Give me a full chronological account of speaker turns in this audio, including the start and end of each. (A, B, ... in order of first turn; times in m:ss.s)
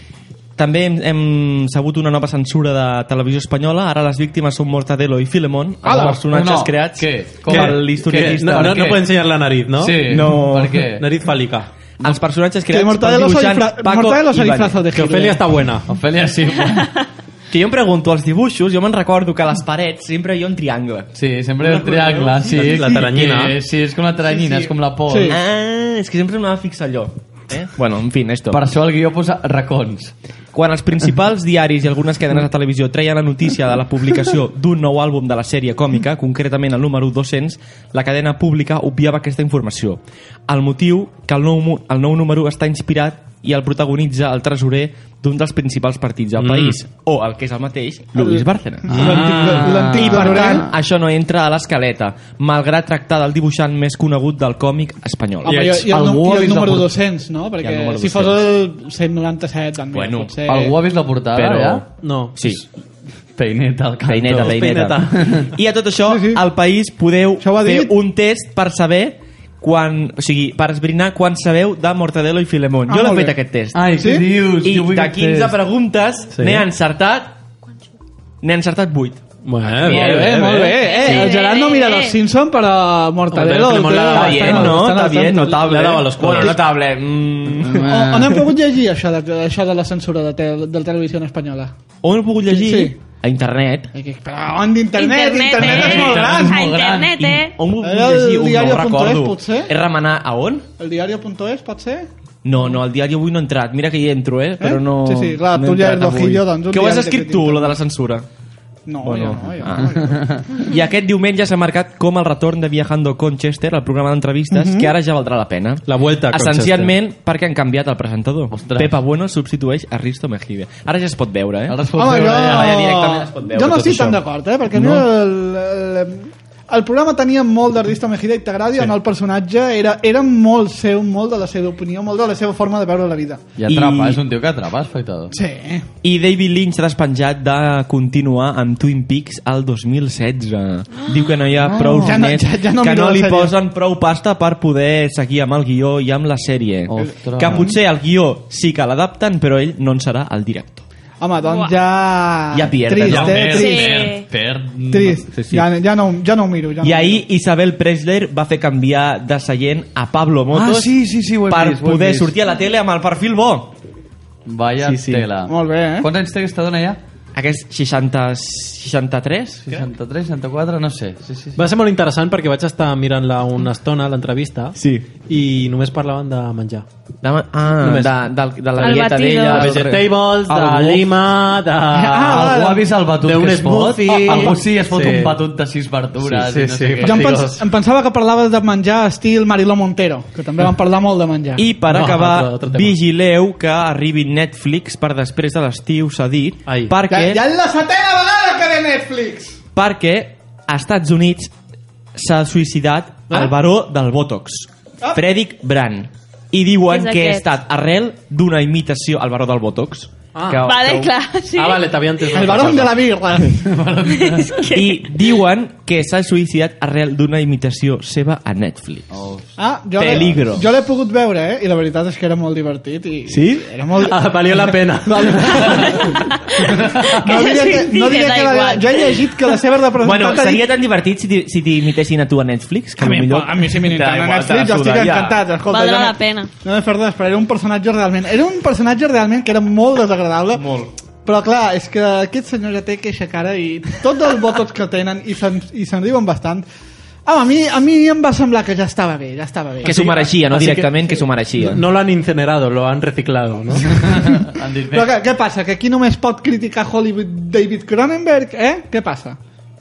0:00.6-0:08.8 A
0:05.8-0:06.2 B
0:06.1-0:09.1 C
0:07.5-0:10.0 D
0:09.8-0:11.1 C
0:10.1-0:10.8 A
0:10.8-0:11.7 D
0:12.0-0:14.8 A
0:12.7-0:15.6 B
0:14.9-0:15.9 D
0:15.8-0:17.0 C
0:17.5-0:22.9 A
0:21.2-0:25.4 C
0:22.5-0:23.6 D
0:22.7-0:23.1 B
0:25.1-0:25.4 B
0:25.3-0:28.6 A
0:28.5-0:30.1 C
0:30.5-0:56.9 A
0:46.4-0:46.8 D
0:48.2-0:50.7 B
0:48.9-0:49.5 D
0:49.0-0:50.7 C
0:55.4-1:00.8 B
0:57.6-0:58.4 A
0:59.9-1:00.4 A
1:00.5-1:01.8 C
1:01.3-1:01.8 A
1:02.0-1:02.5 D
1:02.4-1:02.6 A
1:03.4-1:05.5 C
1:04.0-1:13.8 A
1:04.3-1:05.4 D
1:06.1-1:06.4 B
1:07.4-1:07.9 B
1:12.9-1:13.3 B
1:13.7-1:15.6 C
1:14.0-1:14.3 B
1:14.6-1:17.4 A
1:16.4-1:16.7 D
1:18.4-1:19.2 A
1:19.4-1:20.9 D
1:19.8-1:25.6 B
1:19.9-1:20.2 A
1:20.8-1:22.2 E
1:23.3-1:24.8 D
1:24.1-1:27.8 A
1:25.5-1:26.6 D
1:27.6-1:28.5 C
1:27.8-1:31.7 B
1:32.0-1:33.9 A
1:32.5-1:33.0 B
1:34.0-1:36.7 B
1:35.0-1:37.6 E
1:35.6-1:37.2 C
1:37.0-1:40.7 A
1:37.8-1:39.7 B
1:40.8-1:42.1 B
1:42.4-1:48.3 A
1:44.6-1:47.8 B
1:48.9-1:50.4 B
1:49.0-1:50.0 A
1:50.5-2:04.2 A
1:54.5-1:54.9 B
1:55.9-1:56.9 D
1:58.5-1:58.9 C
2:01.7-2:02.8 C
2:01.9-2:13.4 B
2:13.6-2:15.4 C
2:13.7-2:14.2 A
2:15.3-2:15.9 B
2:16.0-2:30.8 A
2:21.7-2:23.5 B
2:26.9-2:27.7 C
2:27.4-2:27.8 B
2:31.2-2:34.0 B
2:31.4-2:31.8 E
2:32.5-2:33.6 A
2:33.0-2:35.6 C
2:33.5-2:34.3 E
2:34.9-2:37.2 B
2:36.8-2:41.0 A
2:40.5-2:42.4 C
2:41.5-2:43.7 A
2:44.4-2:47.0 C
2:44.8-2:45.3 A
2:45.5-2:46.1 B
2:47.4-2:49.9 A
2:49.6-2:51.7 C
2:51.6-2:56.9 D
2:54.8-2:55.1 A
2:57.2-2:59.8 A
2:57.8-2:58.2 D
2:58.8-2:59.7 E
2:59.5-3:01.1 C
2:59.6-3:02.1 D
3:01.9-3:02.9 B
3:02.0-3:07.6 C
3:03.2-3:05.4 D
3:04.3-3:04.6 B
3:06.2-3:07.2 D
3:07.0-3:11.7 B
3:11.6-3:17.4 A
3:11.9-3:13.0 D
3:16.7-3:17.0 D
3:17.1-3:19.6 B
3:19.8-3:21.5 A
3:22.2-3:31.2 A
3:26.9-3:27.5 E
3:30.4-3:30.7 D
3:30.6-3:32.3 E
3:31.6-3:33.0 D
3:32.3-3:33.7 B
3:33.7-3:34.1 D
3:33.8-3:34.7 C
3:34.1-3:35.0 E
3:34.7-3:39.1 A
3:39.1-3:39.5 C
3:39.6-3:46.1 B
3:40.0-3:40.7 A
3:43.3-3:43.7 A
3:44.0-3:46.0 D
3:45.8-3:49.3 E
3:46.6-3:50.6 B
3:46.7-3:47.0 D
3:50.0-3:55.4 A
3:53.0-4:00.6 B
3:55.7-3:56.5 E
4:00.6-4:00.9 A
4:01.2-4:06.7 B
4:07.3-4:10.3 B
4:09.8-4:11.8 A
4:10.0-4:14.5 D
4:14.2-4:15.1 C
4:14.9-4:19.4 B